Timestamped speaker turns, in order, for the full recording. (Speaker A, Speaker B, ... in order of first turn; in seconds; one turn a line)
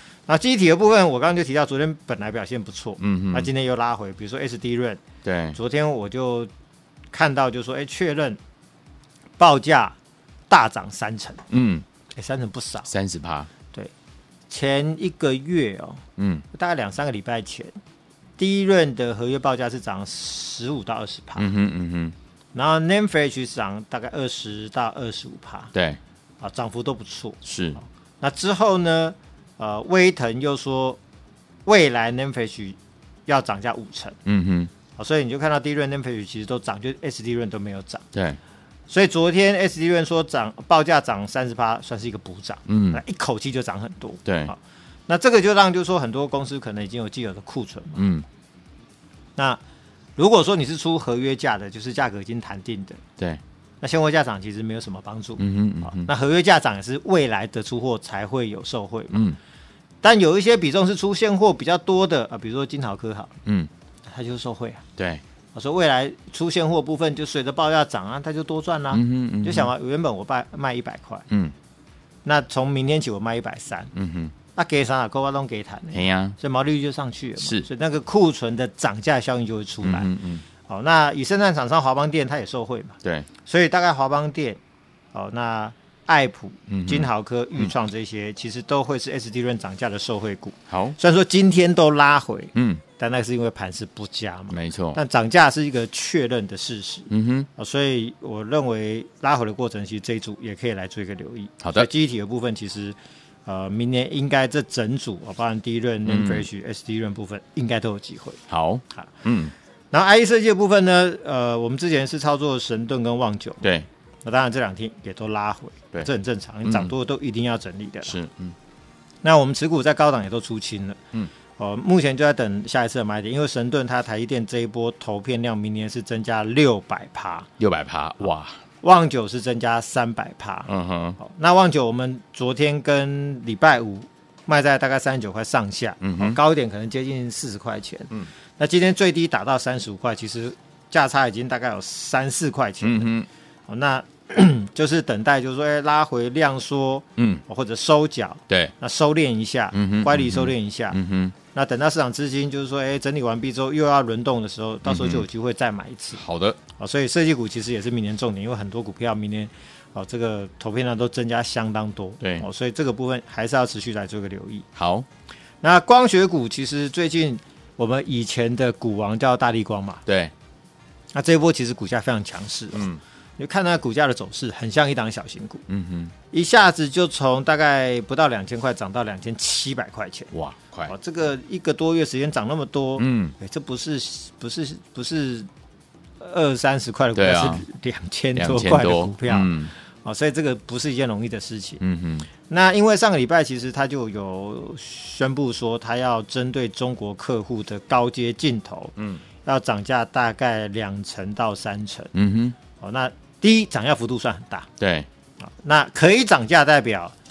Speaker A: 0.3-5.0
Speaker B: 3.0-3.5
Speaker B: 5.2-5.6
Speaker A: 5.5-6.5
Speaker A: 7.1-8.4
Speaker A: 9.4-10.0
Speaker A: 10.5-11.4
Speaker B: 11.5-11.8
Speaker A: 12.2-12.9
Speaker B: 12.9-13.5
Speaker A: 14.5-17.8
Speaker B: 16.2-16.4
Speaker A: 18.4-21.5
Speaker B: 21.4-22.1
Speaker A: 22.5-25.7
Speaker B: 25.7-26.0
Speaker A: 26.4-31.0
Speaker B: 27.4-27.8
Speaker A: 31.7-34.2
Speaker B: 34.3-34.7
Speaker A: 35.0-38.0
Speaker B: 38.1-38.4
Speaker A: 38.9-48.0
Speaker B: 42.7-43.0
Speaker B: 44.3-44.5
Speaker B: 48.0-48.2
Speaker A: 49.4-49.6
Speaker A: 50.2-53.0
Speaker A: 53.8-59.2
Speaker B: 55.4-56.1
Speaker B: 59.1-59.4
Speaker A: 60.0-63.4
Speaker A: 64.1-64.8
Speaker B: 65.0-65.2
Speaker A: 65.5-71.3
Speaker B: 68.9-69.7
Speaker A: 72.2-73.9
Speaker B: 73.9-74.3
Speaker A: 74.5-80.1
Speaker B: 75.9-76.4
Speaker B: 77.4-77.7
Speaker B: 79.8-80.4
Speaker A: 80.7-84.6
Speaker B: 83.0-83.3
Speaker A: 85.1-103.0
Speaker B: 86.7-87.7
Speaker B: 90.7-91.0
Speaker B: 92.5-92.8
Speaker B: 94.5-95.0
Speaker B: 97.1-97.5
Speaker B: 101.6-101.9
Speaker A: 103.5-108.4
Speaker B: 106.1-106.5
Speaker B: 108.5-109.5
Speaker A: 109.9-113.6
Speaker B: 113.6-113.9
Speaker A: 114.2-118.2
Speaker B: 116.7-116.9
Speaker B: 118.0-118.6
Speaker A: 119.2-121.0
Speaker A: 121.6-127.5
Speaker B: 127.6-128.6
Speaker A: 128.8-143.1
Speaker B: 130.7-131.2
Speaker B: 136.0-136.4
Speaker B: 142.8-143.3
Speaker A: 143.7-151.0
Speaker B: 147.2-147.4
Speaker B: 149.7-151.4
Speaker A: 151.5-156.2
Speaker B: 154.9-155.3
Speaker B: 156.2-156.6
Speaker A: 156.8-164.7
Speaker B: 162.2-162.5
Speaker B: 164.8-165.1
Speaker A: 165.6-170.0
Speaker B: 170.1-170.3
Speaker A: 171.1-175.6
Speaker B: 172.7-173.0
Speaker B: 175.7-176.1
Speaker A: 176.3-180.3
Speaker B: 180.3-180.9
Speaker A: 180.9-185.5
Speaker B: 183.0-183.4
Speaker A: 186.2-191.8
Speaker B: 187.2-187.7
Speaker B: 188.3-189.7
Speaker B: 191.8-192.3
Speaker A: 192.5-202.1
Speaker B: 199.0-199.2
Speaker B: 202.1-202.6
Speaker A: 202.8-204.7
Speaker B: 204.8-205.1
Speaker A: 205.4-207.2